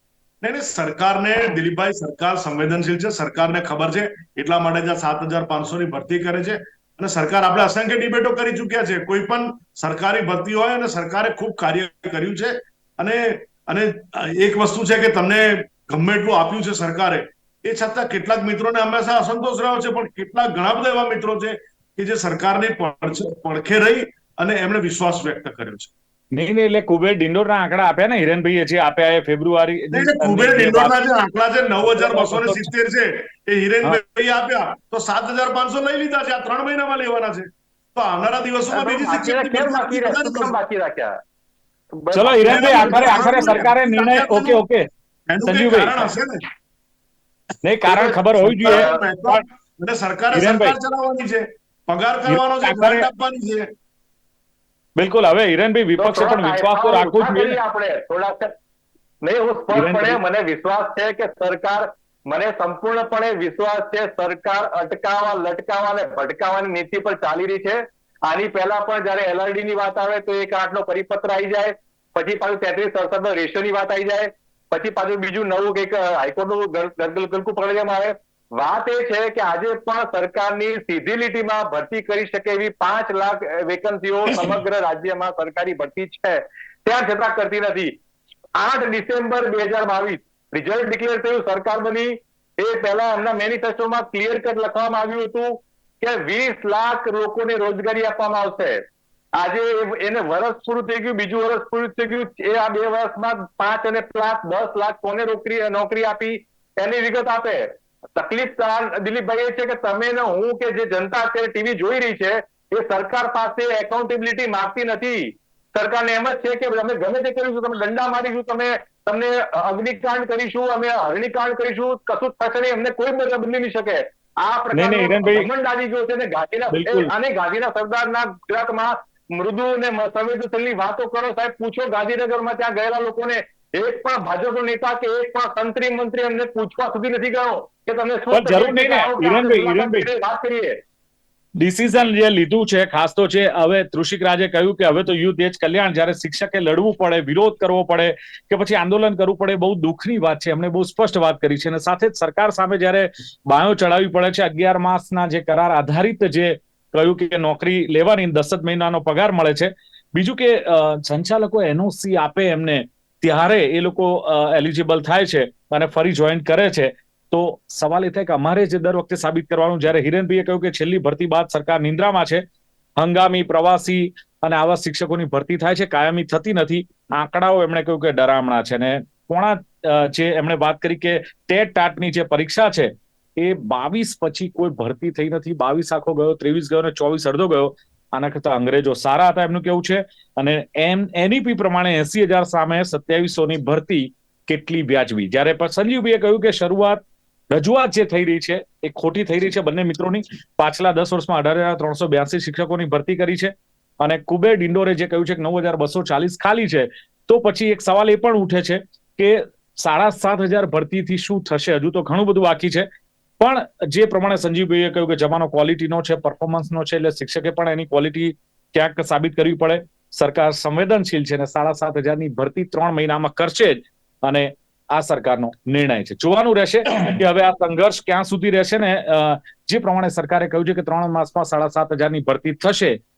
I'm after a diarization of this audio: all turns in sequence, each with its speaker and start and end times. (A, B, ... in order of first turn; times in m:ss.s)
0:00.4-0:25.9 A
0:26.3-0:31.0 B
0:29.9-0:40.6 A
0:31.9-0:32.7 B
0:38.7-0:41.2 C
0:42.0-0:43.7 C
0:42.1-0:44.9 B
0:42.4-0:44.6 A
0:45.3-0:46.4 A
0:45.5-0:46.1 B
0:47.6-0:49.4 B
0:47.9-0:49.0 C
0:47.9-0:53.7 A
0:50.3-0:50.8 B
0:52.2-0:53.1 B
0:55.0-0:57.6 B
0:56.0-0:58.5 C
0:59.2-1:27.9 C
0:59.7-1:00.2 B
1:28.6-1:38.8 C
1:39.4-2:20.8 C
2:04.7-2:05.5 B
2:06.7-2:07.1 B
2:18.3-2:20.1 B
2:21.6-2:52.4 B
2:53.0-3:32.9 B
3:33.4-3:53.0 B